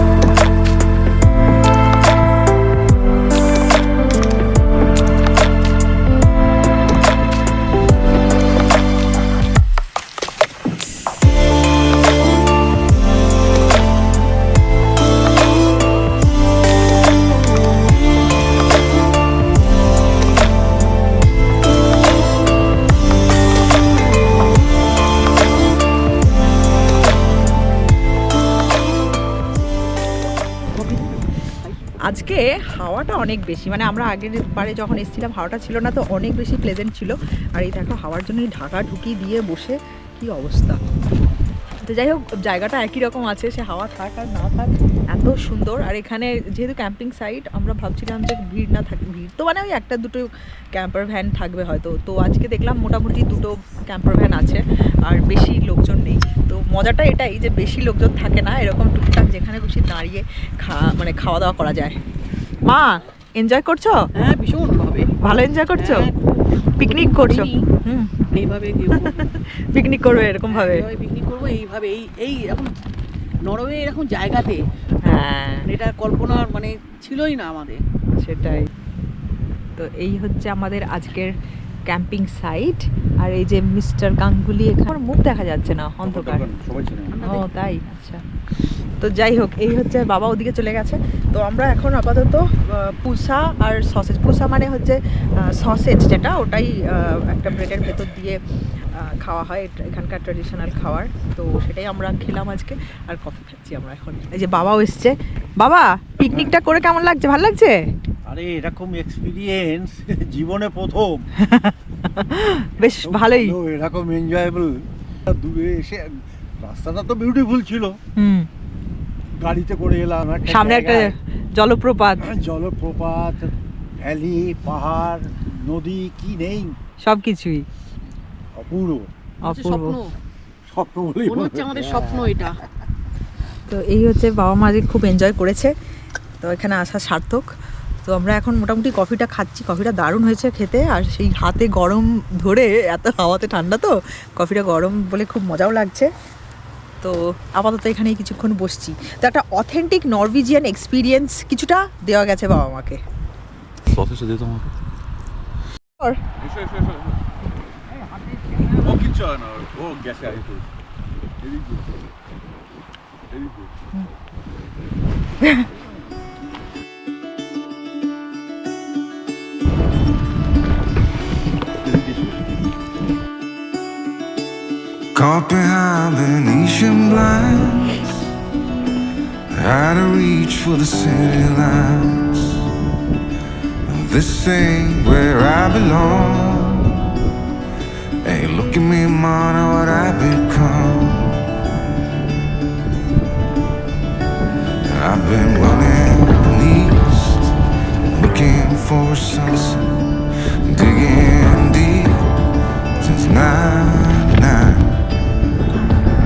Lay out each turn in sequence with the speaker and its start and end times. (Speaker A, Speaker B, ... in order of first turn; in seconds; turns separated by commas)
Speaker A: 32.1-40.8, Speaker A: 41.9-62.0, Speaker A: 62.7-64.0, Speaker B: 64.2-65.2, Speaker A: 65.3-66.0, Speaker B: 65.8-67.7, Speaker A: 66.8-68.2, Speaker B: 68.3-69.3, Speaker A: 69.4-70.8, Speaker B: 70.5-72.7, Speaker B: 73.5-74.6, Speaker A: 75.1-75.6, Speaker B: 75.6-77.8, Speaker A: 78.2-78.7, Speaker A: 79.8-81.3, Speaker A: 81.9-86.4, Speaker C: 86.0-87.2, Speaker B: 87.1-87.5, Speaker A: 87.3-88.2, Speaker A: 89.0-98.4, Speaker A: 98.9-107.8, Speaker C: 106.2-106.6, Speaker C: 108.3-111.2, Speaker A: 111.4-113.5, Speaker C: 112.8-118.0, Speaker A: 118.2-118.5, Speaker C: 119.4-121.2, Speaker A: 120.6-122.2, Speaker C: 122.2-126.8, Speaker A: 127.0-127.7, Speaker C: 128.6-129.1, Speaker B: 129.4-130.2, Speaker A: 129.5-129.9, Speaker C: 130.7-132.4, Speaker B: 131.2-132.6, Speaker A: 133.7-135.7, Speaker A: 136.4-137.5, Speaker A: 138.1-146.1, Speaker A: 147.0-153.0, Speaker C: 156.6-156.9, Speaker C: 158.7-160.6, Speaker C: 161.4-161.8, Speaker C: 163.3-163.7, Speaker C: 171.8-172.4, Speaker D: 175.1-178.3, Speaker D: 179.5-182.7, Speaker D: 183.8-187.0, Speaker D: 188.2-191.3, Speaker D: 194.8-205.0